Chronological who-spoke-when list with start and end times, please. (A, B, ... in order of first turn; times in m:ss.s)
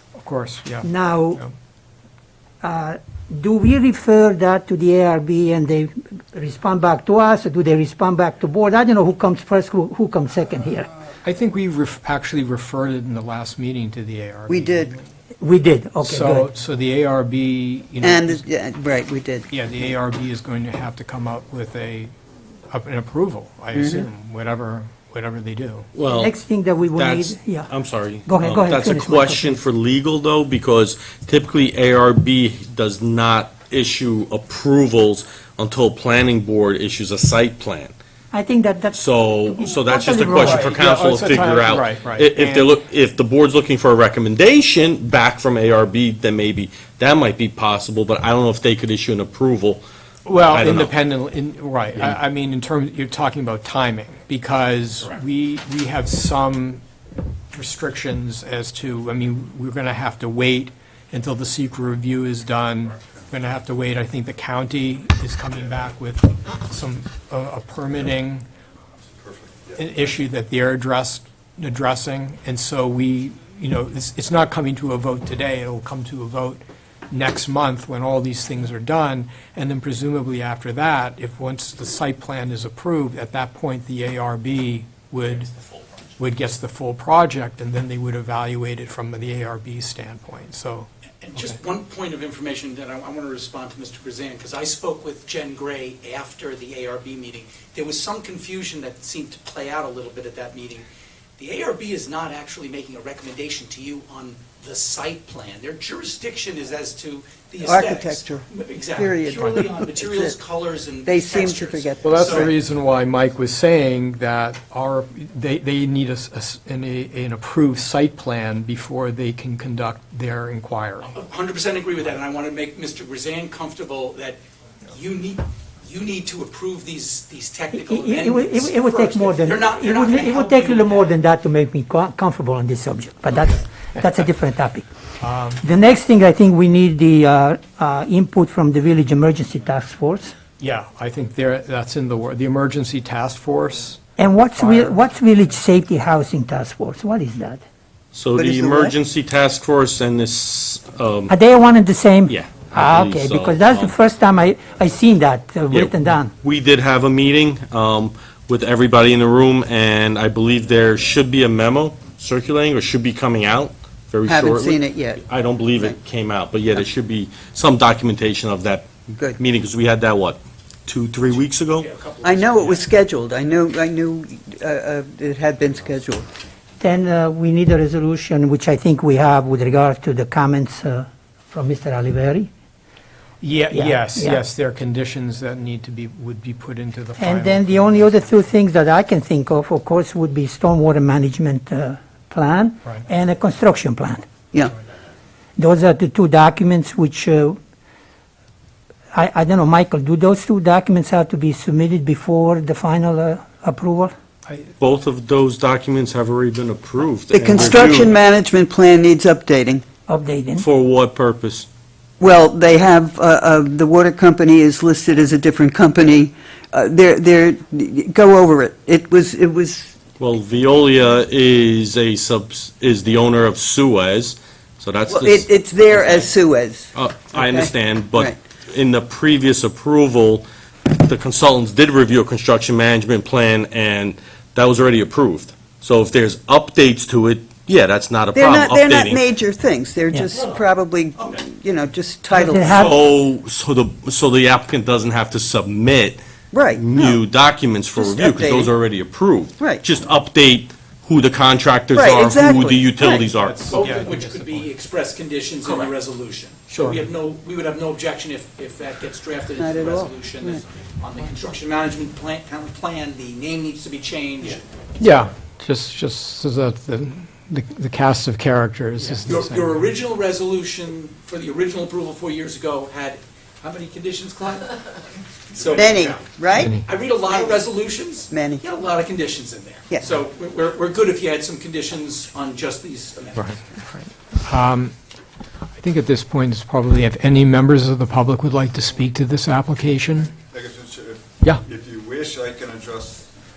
0:00.2-0:01.5 A
0:00.8-0:01.4 B
0:02.6-0:10.9 B
0:11.2-0:15.1 A
0:14.5-0:14.9 C
0:15.4-0:16.5 B
0:16.0-0:18.4 A
0:18.0-0:19.5 C
0:19.5-0:22.1 A
0:22.7-0:25.9 A
0:23.7-0:24.0 C
0:25.9-0:26.4 D
0:26.1-0:27.7 B
0:26.9-0:37.9 D
0:28.2-0:29.6 B
0:38.3-0:40.8 B
0:38.9-0:49.8 D
0:40.4-0:42.7 A
0:50.2-0:56.8 A
0:50.5-0:50.9 D
0:57.5-1:08.4 A
1:09.7-1:25.5 A
1:26.2-1:30.9 A
1:31.2-1:40.8 E
1:41.4-1:52.5 E
1:47.6-1:48.4 C
1:49.0-1:50.4 C
1:51.0-1:52.5 C
1:52.0-2:01.1 A
2:01.0-2:04.4 E
2:04.9-2:11.1 E
2:07.7-2:14.9 B
2:15.2-2:15.6 A
2:15.6-2:20.3 B
2:20.6-2:24.0 A
2:24.2-2:27.6 B
2:24.5-2:25.0 A
2:28.1-2:31.3 D
2:28.4-2:28.9 C
2:31.3-2:36.3 B
2:32.3-2:33.9 D
2:35.7-2:51.9 D
2:44.3-2:45.2 C
2:49.1-2:49.4 C
2:51.7-2:52.9 E
2:52.2-2:56.2 C
2:56.8-3:02.5 B
3:03.4-3:08.5 A
3:03.7-3:04.4 B
3:07.2-3:14.2 B
3:15.6-3:17.6 B
3:19.1-3:24.1 B
3:24.5-3:24.7 A
3:24.8-3:28.1 D
3:27.3-3:29.8 C
3:30.1-3:30.6 B
3:30.6-3:31.7 D
3:32.2-3:39.9 C
3:40.2-3:46.3 D
3:45.1-3:48.3 C
3:46.9-3:59.2 D
3:58.3-4:02.8 C
4:00.3-4:00.6 E
4:02.3-4:03.0 B
4:02.7-4:13.7 D
4:06.5-4:07.2 C
4:08.0-4:08.7 C
4:11.9-4:13.2 C
4:13.1-4:14.7 A
4:13.7-4:24.6 E
4:16.7-4:17.0 A
4:19.6-4:20.6 C
4:25.0-4:29.8 A
4:29.1-4:34.8 E
4:35.5-4:36.3 E
4:35.7-4:36.8 C
4:36.5-4:36.8 A
4:36.8-4:43.6 E
4:38.3-4:38.6 C
4:43.5-4:45.0 A
4:45.8-4:50.3 A
4:50.5-4:53.3 F